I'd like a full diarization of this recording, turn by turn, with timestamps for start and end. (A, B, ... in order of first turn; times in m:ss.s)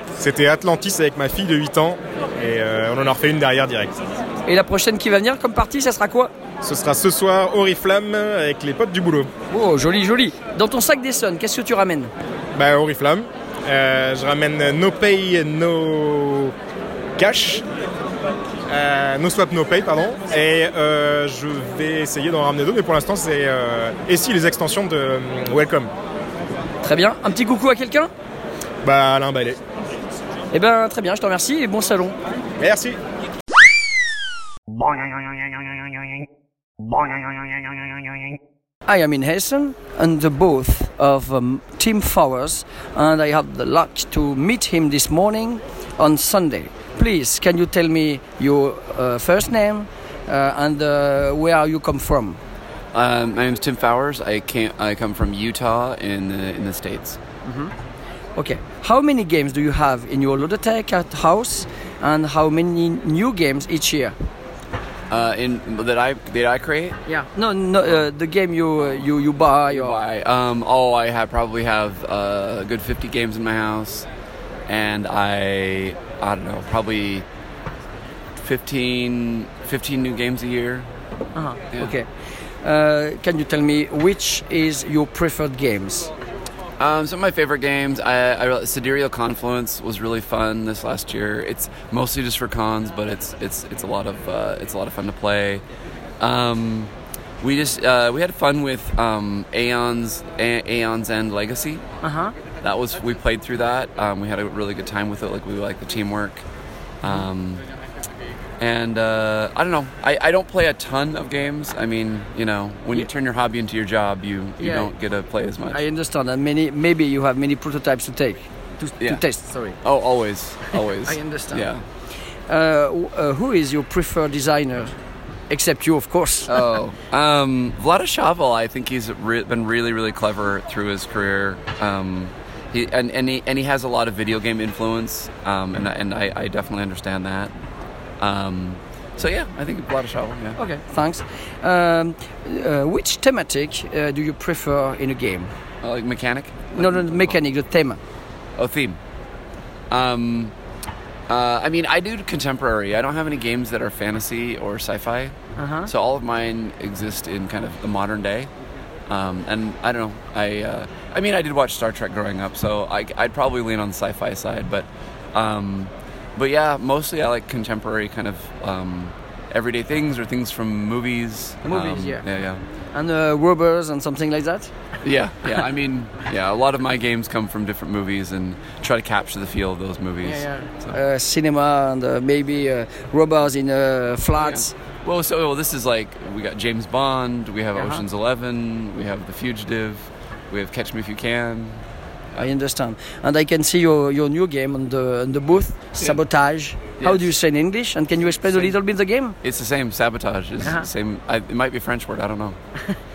0:00.2-0:04.0 A
0:04.4-0:06.3 B
0:06.6-0:09.3 A
0:09.5-0:12.1 B
0:12.6-0:16.5 A
0:17.2-0:17.6 A
0:18.7-0:25.9 A
0:26.8-0:28.1 B
0:28.8-0:29.6 A
0:30.5-0:32.2 B
0:32.6-0:33.0 A
0:38.8-0:52.4 B
0:52.9-0:57.2 C
0:57.4-0:57.7 B
0:58.4-1:04.2 B
1:05.1-1:07.0 C
1:07.1-1:10.0 B
1:09.7-1:14.1 C
1:14.7-1:17.2 C
1:18.4-1:20.9 C
1:21.4-1:22.1 B
1:22.6-1:26.1 B
1:26.8-1:35.6 C
1:36.2-1:41.8 C
1:42.0-1:42.3 B
1:42.6-1:46.4 C
1:47.0-1:47.6 C
1:48.6-1:55.8 C
1:54.6-1:54.9 B
1:55.7-1:59.8 B
1:59.8-2:01.8 C
2:01.0-2:01.7 B
2:02.5-2:04.9 B
2:05.5-2:06.6 B
2:06.5-2:17.5 C
2:18.2-2:20.6 C
2:20.6-2:25.5 B
2:25.8-2:27.3 C
2:26.8-2:28.0 B
2:28.6-2:29.0 C
2:29.9-2:30.5 C
2:31.3-2:35.4 C
2:35.6-2:35.9 B
2:35.9-2:38.5 C
2:39.1-2:52.6 C
2:51.6-2:52.2 B
2:52.9-2:54.7 B
2:55.0-3:01.0 C
3:00.2-3:04.7 B
3:04.4-3:11.8 C
3:07.8-3:08.0 B
3:12.4-3:19.4 B
3:17.0-3:17.3 C
3:19.4-3:22.6 C